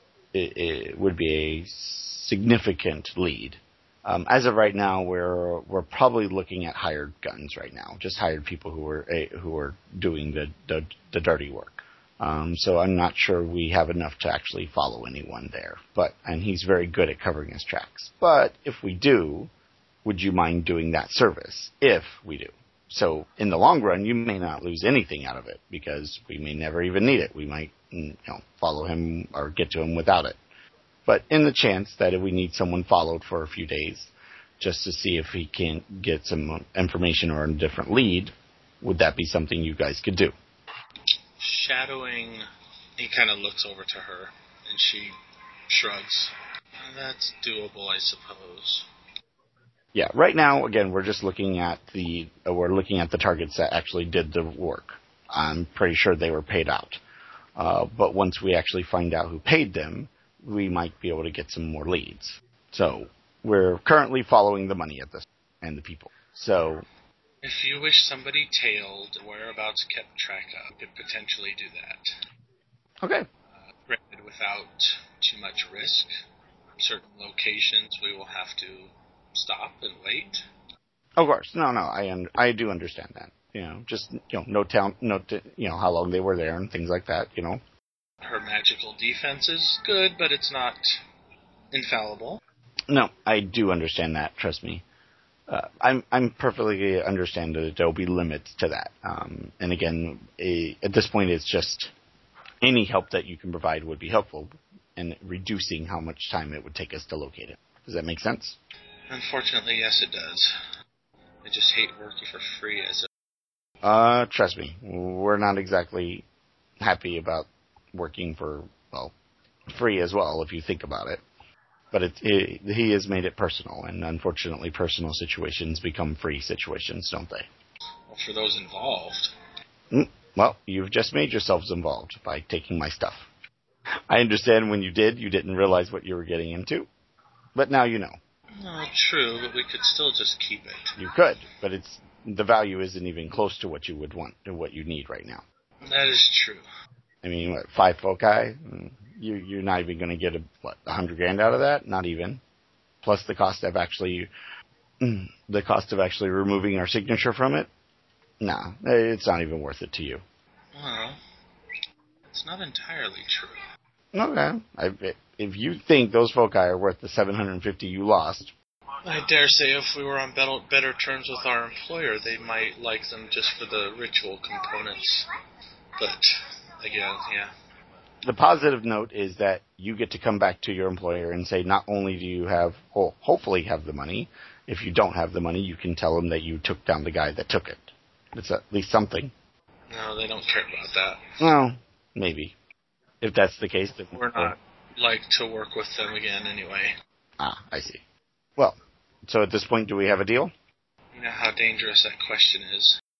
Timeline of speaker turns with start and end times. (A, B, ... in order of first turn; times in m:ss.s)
0:00.3-0:19.5 A
0:20.0-0:30.4 A
0:31.0-0:40.3 A
0:41.4-0:42.4 B
0:43.0-0:45.1 B
0:45.7-0:48.9 B
0:49.9-0:57.0 A
0:57.6-1:06.8 A
1:07.4-1:12.1 B
1:13.0-1:13.3 A
1:13.9-1:16.1 B
1:16.8-1:20.4 B
1:21.2-1:27.6 A
1:28.2-1:31.0 B
1:31.7-1:32.4 B
1:32.9-1:34.8 A
1:35.5-1:41.9 A
1:42.6-1:48.6 A
1:49.1-1:50.5 B
1:51.4-1:53.1 B
1:53.8-1:56.2 A
1:56.8-1:59.1 A
1:59.7-2:01.2 A
2:01.9-2:07.5 A
2:08.1-2:09.3 B
2:09.9-2:13.2 A
2:14.1-2:16.9 A
2:17.5-2:18.2 A
2:18.6-2:21.0 B
2:21.0-2:25.4 A
2:25.8-2:26.6 B
2:27.2-2:32.4 A
2:33.0-2:34.3 A
2:35.0-2:37.7 A
2:38.4-2:40.2 A
2:40.7-2:41.2 B
2:42.3-2:43.6 B
2:44.1-2:48.5 A
2:49.0-2:55.2 B
2:56.0-2:57.5 B
2:58.2-3:09.3 A
3:09.9-3:11.4 B
3:11.4-3:12.5 A
3:13.2-3:14.5 A
3:14.1-3:16.9 B
3:17.4-3:18.0 A
3:18.6-3:20.5 A
3:21.1-3:23.0 B